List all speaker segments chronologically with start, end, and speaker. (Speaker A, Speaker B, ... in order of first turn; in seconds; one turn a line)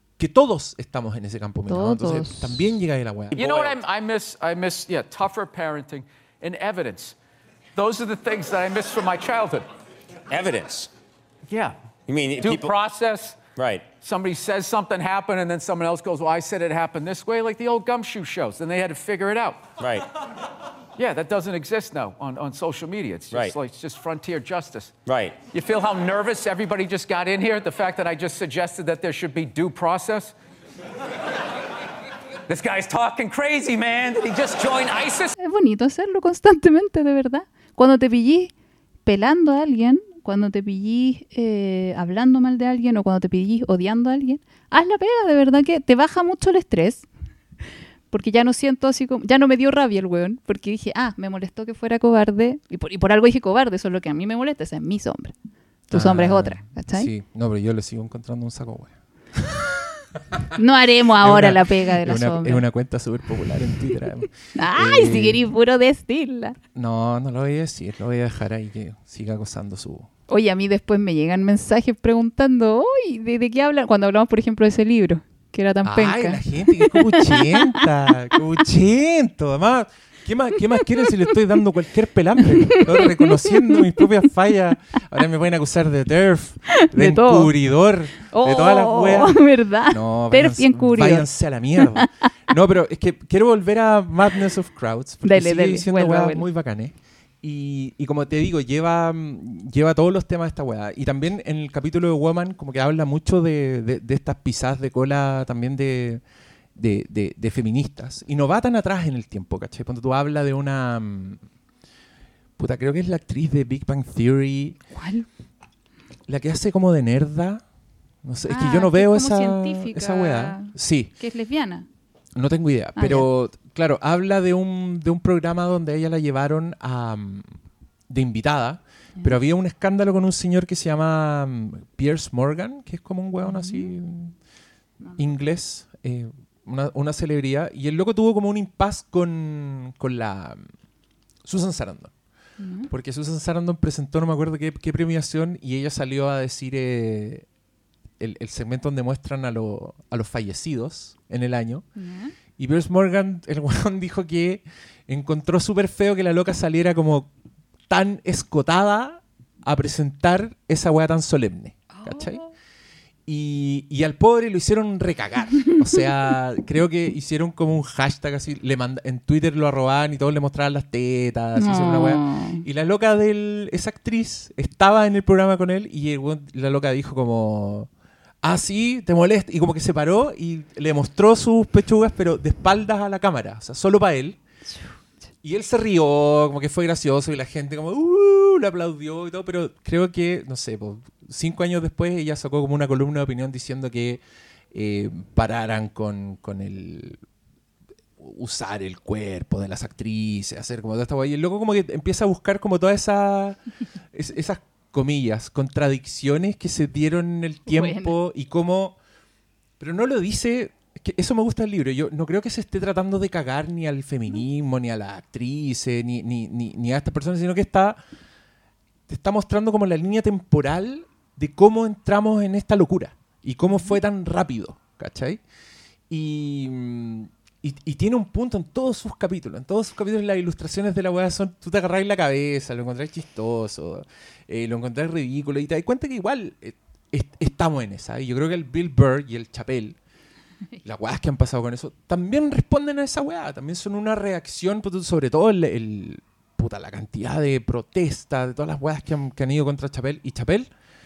Speaker A: 0.2-3.7
Speaker B: 1.7-2.6
Speaker C: 3.3-7.2
Speaker D: 3.3-3.7
Speaker C: 7.7-9.6
Speaker D: 10.3-10.9
Speaker C: 11.5-11.7
Speaker D: 12.1-12.7
Speaker C: 12.4-13.4
Speaker D: 13.6-13.8
Speaker C: 14.0-19.7
Speaker D: 19.8-20.0
Speaker C: 20.9-24.9
Speaker D: 25.1-25.4
Speaker C: 25.5-30.3
Speaker C: 32.5-35.3
Speaker B: 35.4-38.5
Speaker B: 39.0-47.1
Speaker B: 48.1-55.3
Speaker B: 55.9-57.1
Speaker A: 55.9-60.5
Speaker B: 60.5-62.6
Speaker A: 61.2-65.5
Speaker B: 64.5-66.6
Speaker A: 66.7-70.1
Speaker B: 70.3-77.8
Speaker A: 75.8-106.2
Speaker B: 82.7-83.8
Speaker B: 86.7-87.5
Speaker B: 88.3-92.1
Speaker B: 95.2-96.4
Speaker A: 106.7-111.4
Speaker A: 112.6-114.8
Speaker B: 114.9-115.3
Speaker A: 116.3-117.6
Speaker A: 118.2-121.1
Speaker B: 118.5-121.9
Speaker A: 122.3-127.5
Speaker B: 123.0-123.3
Speaker A: 128.1-134.3
Speaker B: 133.4-133.9
Speaker A: 135.2-140.6
Speaker A: 141.4-142.1
Speaker B: 142.6-142.9
Speaker A: 142.9-147.4
Speaker A: 148.2-151.8
Speaker B: 152.0-152.3
Speaker A: 152.6-157.3
Speaker A: 157.9-162.4
Speaker B: 161.9-162.5
Speaker A: 163.2-177.9
Speaker B: 171.6-172.6
Speaker A: 178.4-184.4
Speaker A: 185.4-197.2
Speaker A: 198.2-203.6
Speaker A: 204.1-209.0
Speaker B: 207.7-208.2
Speaker A: 209.8-218.0
Speaker A: 219.1-225.4
Speaker B: 223.7-223.9
Speaker A: 226.1-240.0
Speaker A: 240.8-250.7